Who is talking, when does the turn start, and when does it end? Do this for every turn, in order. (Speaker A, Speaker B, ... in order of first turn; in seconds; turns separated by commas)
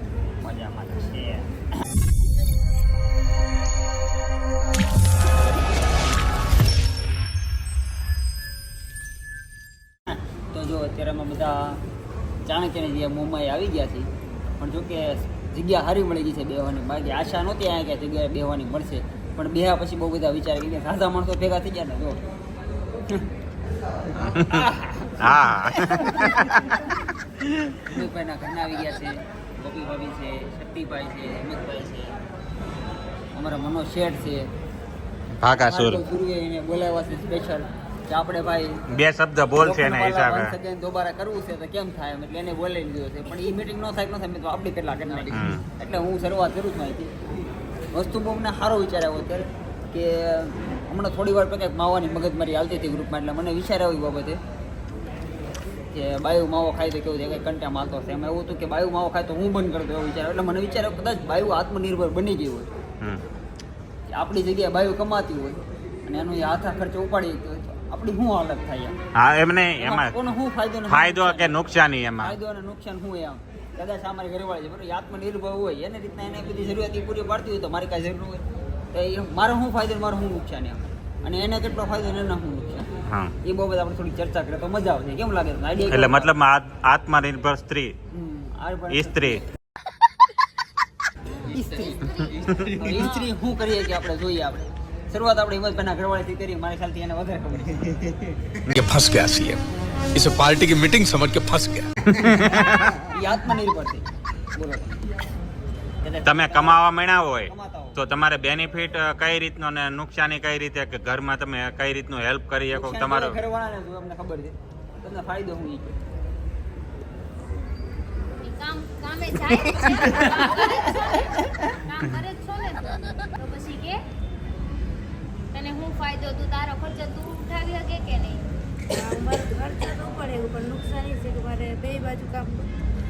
Speaker A: 0.4-1.5, Speaker A: 10.1-11.8, Speaker A: 12.4-14.1, Speaker A: 14.6-22.2, Speaker A: 24.3-25.3, Speaker B: 25.5-26.6, Speaker A: 26.2-26.6, Speaker A: 27.9-32.1, Speaker A: 33.3-34.5, Speaker B: 35.5-36.0, Speaker A: 35.5-38.8, Speaker B: 39.0-40.5, Speaker A: 39.5-47.1, Speaker A: 47.9-54.4, Speaker A: 55.9-62.7, Speaker A: 64.1-68.9, Speaker B: 69.2-70.1, Speaker A: 69.8-71.6, Speaker B: 70.9-72.3, Speaker A: 72.2-82.8, Speaker A: 83.4-86.3, Speaker B: 85.9-87.9, Speaker A: 88.1-89.4, Speaker B: 88.9-89.4, Speaker A: 91.5-98.3, Speaker C: 98.7-99.6, Speaker C: 100.1-101.9, Speaker B: 102.1-103.0, Speaker A: 103.1-105.0, Speaker A: 106.0-108.0, Speaker B: 106.3-113.4, Speaker A: 112.7-115.9, Speaker D: 118.4-124.0, Speaker A: 120.0-120.7, Speaker D: 125.5-128.4, Speaker E: 128.9-132.7